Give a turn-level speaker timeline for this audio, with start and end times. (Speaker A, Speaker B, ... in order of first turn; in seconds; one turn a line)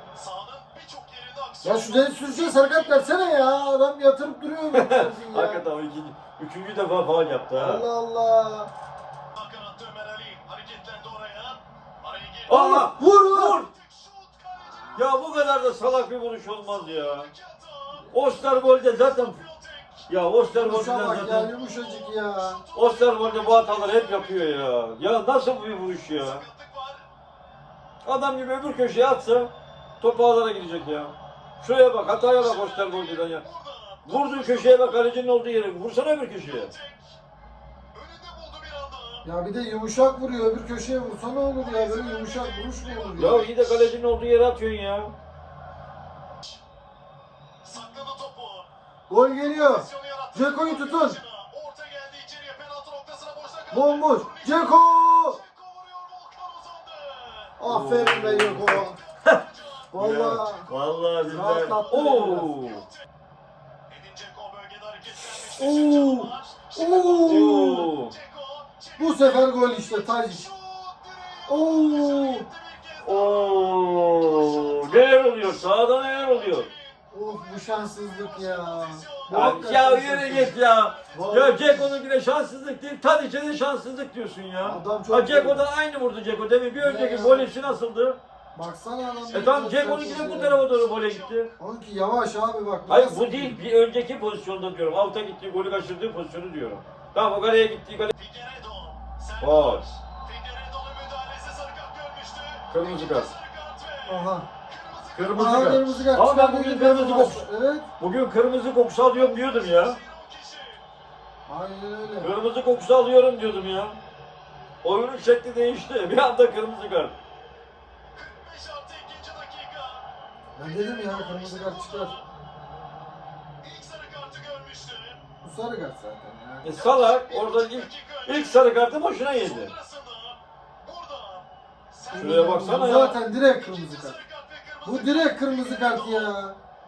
Speaker A: 0.1-3.2
Speaker B: 1.6-5.6
Speaker C: 4.7-7.8
Speaker B: 7.6-8.7
Speaker A: 9.3-12.5
Speaker C: 12.5-13.7
Speaker B: 12.5-13.6
Speaker A: 13.7-15.1
Speaker B: 14.6-14.9
Speaker C: 14.9-17.3
Speaker A: 16.7-20.1
Speaker C: 18.1-19.4
Speaker C: 20.1-21.5
Speaker B: 20.5-22.6
Speaker A: 22.5-24.5
Speaker C: 22.7-26.4
Speaker A: 26.2-27.0
Speaker C: 28.0-33.4
Speaker A: 32.2-35.1
Speaker C: 34.0-36.7
Speaker A: 36.5-37.0
Speaker A: 37.9-39.2
Speaker B: 39.2-43.5
Speaker A: 41.6-43.5
Speaker C: 43.1-45.1
Speaker A: 47.6-48.7
Speaker B: 49.1-51.2
Speaker A: 49.6-57.5
Speaker B: 53.7-55.4
Speaker B: 57.6-59.0
Speaker C: 57.6-59.4
Speaker A: 59.3-59.9
Speaker B: 59.9-60.7
Speaker C: 59.9-62.9
Speaker B: 61.3-62.5
Speaker A: 63.9-79.7
Speaker B: 65.2-67.9
Speaker C: 67.2-68.1
Speaker B: 69.0-70.5
Speaker B: 71.5-72.5
Speaker C: 73.0-76.7
Speaker B: 77.1-80.5
Speaker C: 79.3-88.2
Speaker A: 80.3-81.8
Speaker B: 81.1-81.9
Speaker B: 84.6-85.7
Speaker B: 86.8-87.7
Speaker B: 88.5-90.6
Speaker A: 89.0-91.4
Speaker C: 89.3-91.5
Speaker B: 91.6-93.6
Speaker C: 92.9-98.1
Speaker A: 98.2-105.5
Speaker C: 99.4-99.8
Speaker C: 102.7-103.3
Speaker B: 104.0-104.5
Speaker C: 105.1-107.5
Speaker B: 105.3-107.9
Speaker C: 108.0-110.0
Speaker A: 109.2-110.8
Speaker B: 111.5-112.3
Speaker C: 112.2-114.0
Speaker C: 114.8-117.1
Speaker A: 118.1-120.0
Speaker B: 120.5-122.1
Speaker A: 120.7-122.2
Speaker A: 123.6-125.2
Speaker B: 125.4-126.8
Speaker C: 126.6-129.7
Speaker A: 126.8-128.7
Speaker A: 129.3-136.3
Speaker C: 132.1-133.2
Speaker B: 132.1-134.2
Speaker B: 134.8-136.6